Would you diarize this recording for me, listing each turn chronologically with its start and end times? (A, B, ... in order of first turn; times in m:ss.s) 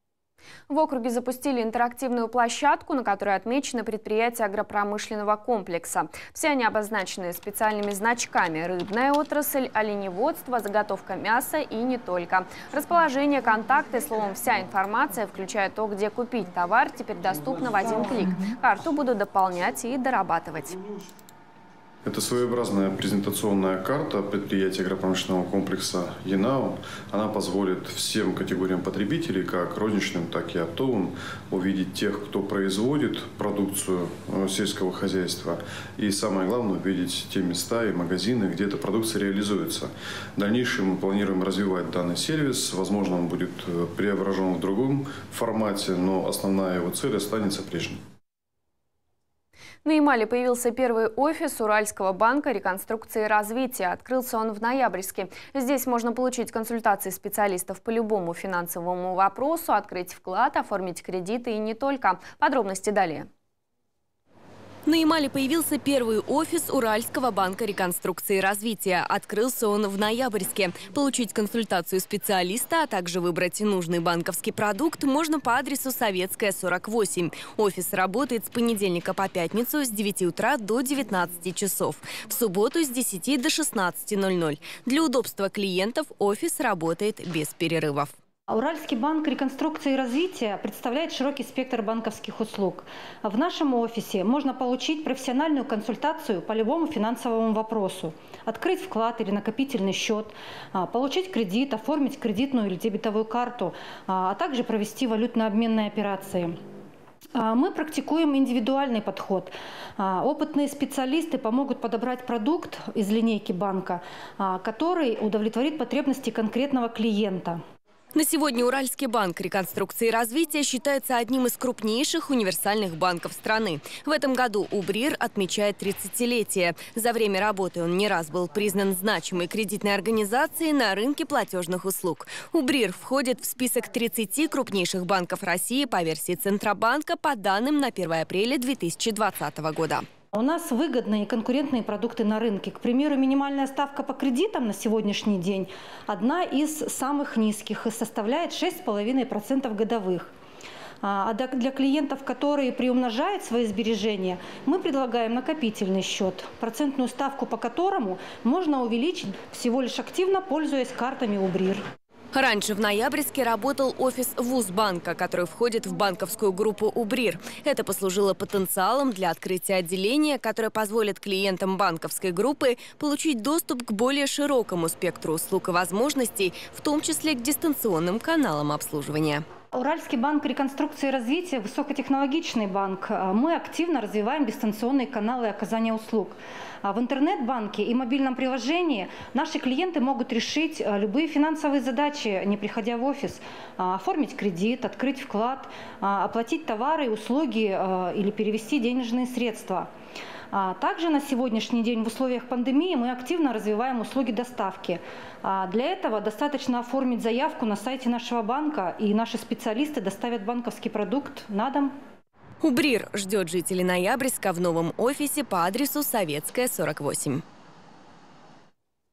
0:00.7-0:20.8 A
0:22.0-0:48.0 B
0:49.8-1:03.3 A
1:04.8-1:28.1 C
1:28.5-1:46.6 D
1:47.3-1:57.6 D
1:58.1-2:20.0 C
2:20.3-2:30.3 D
2:31.0-2:41.8 D
2:42.3-2:59.4 C
2:59.7-3:19.9 D
3:20.5-3:31.9 D
3:32.6-3:37.4 C